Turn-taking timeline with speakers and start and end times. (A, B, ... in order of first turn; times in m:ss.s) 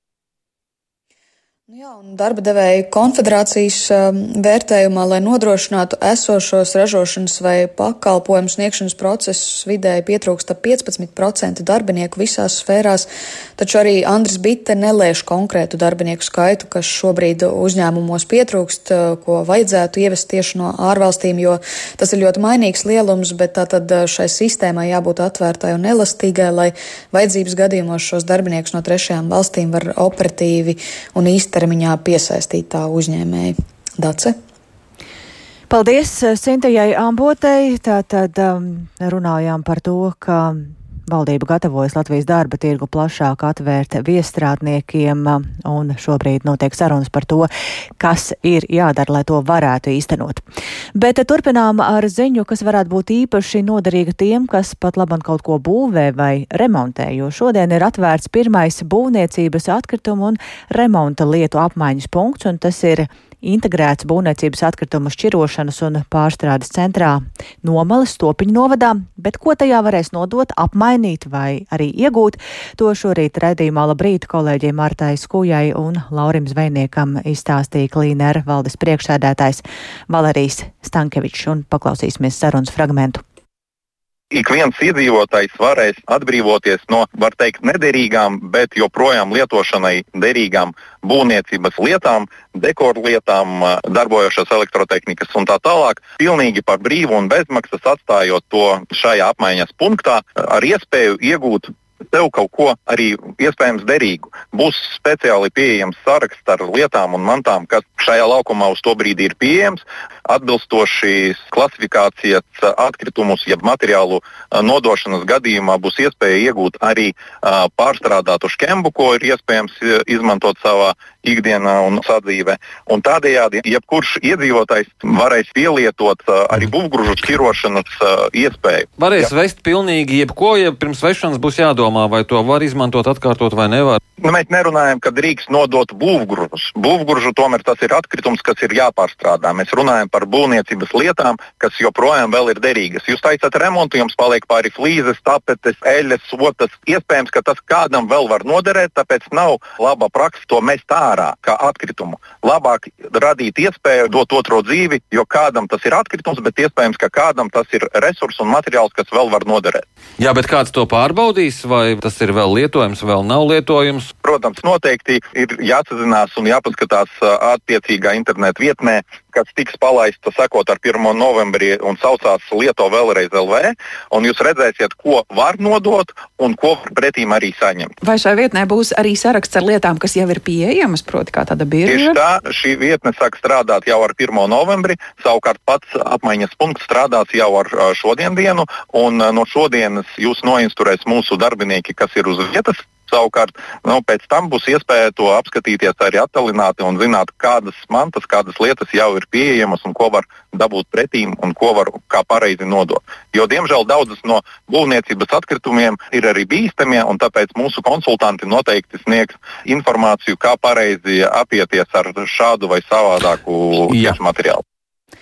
0:01.7-0:34.4 A
0:35.7-0:50.4 B
0:50.9-1:23.2 B
1:24.3-2:09.2 C
2:09.0-2:14.0 D
2:14.2-2:39.8 C
2:40.2-2:44.1 D
2:44.2-2:57.9 C
2:58.0-3:02.2 E
3:01.8-3:34.6 C